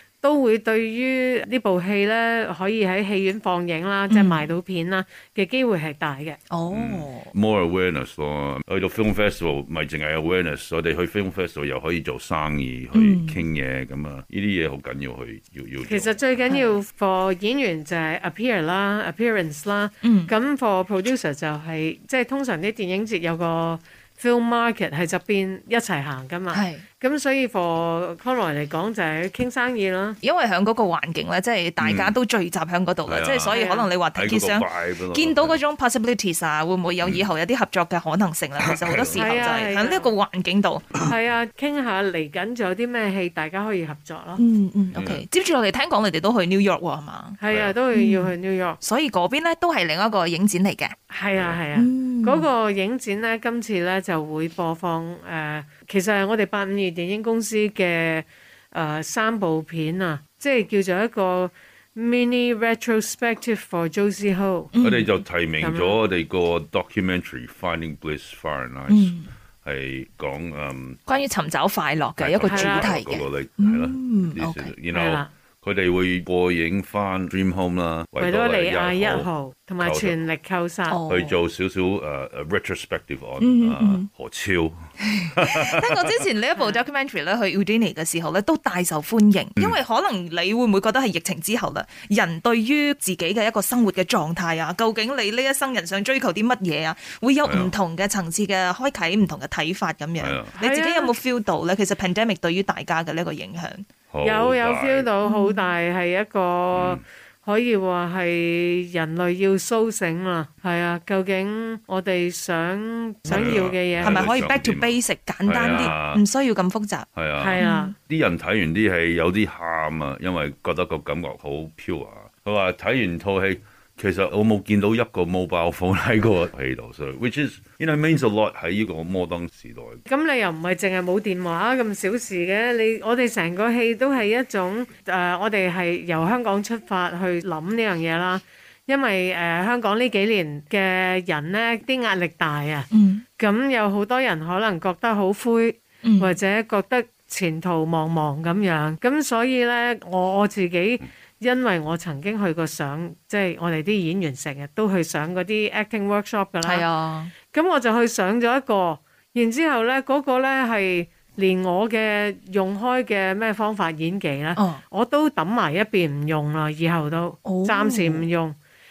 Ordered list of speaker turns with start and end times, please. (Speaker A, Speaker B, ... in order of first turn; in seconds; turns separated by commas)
Speaker A: 0.2-6.4, Speaker B: 4.1-4.5, Speaker B: 6.5-7.3, Speaker C: 6.7-16.2, Speaker B: 12.9-13.4, Speaker A: 15.8-30.2, Speaker B: 20.0-20.3, Speaker B: 26.5-26.8, Speaker B: 30.2-40.9, Speaker C: 31.8-32.1, Speaker C: 33.1-33.6, Speaker A: 33.5-33.9, Speaker C: 34.1-35.6, Speaker C: 38.6-39.5, Speaker A: 39.1-40.1, Speaker A: 41.0-44.4, Speaker B: 44.4-47.4, Speaker C: 44.9-45.2, Speaker A: 47.4-48.8, Speaker B: 47.9-50.9, Speaker A: 51.1-64.7, Speaker B: 51.7-52.5, Speaker B: 64.7-65.1, Speaker C: 64.8-71.0, Speaker A: 65.6-66.0, Speaker B: 68.9-69.3, Speaker B: 71.1-74.7, Speaker C: 72.2-79.3, Speaker A: 72.5-73.0, Speaker A: 74.9-75.3, Speaker A: 78.2-81.0, Speaker C: 79.8-80.1, Speaker B: 80.9-81.4, Speaker C: 81.1-85.8, Speaker B: 83.4-84.1, Speaker B: 85.0-103.8, Speaker C: 97.4-97.7, Speaker C: 100.2-100.5, Speaker A: 100.5-101.1, Speaker C: 104.1-105.1, Speaker A: 104.2-114.3, Speaker B: 105.2-105.7, Speaker C: 106.7-107.0, Speaker C: 113.3-116.2, Speaker B: 113.3-117.0, Speaker C: 117.1-130.0, Speaker A: 117.4-117.9, Speaker B: 117.6-117.9, Speaker A: 130.1-142.9, Speaker B: 142.9-143.2, Speaker A: 143.4-156.8, Speaker B: 146.0-146.3, Speaker B: 156.6-157.3, Speaker A: 157.5-168.5, Speaker B: 164.6-164.8, Speaker B: 167.4-168.3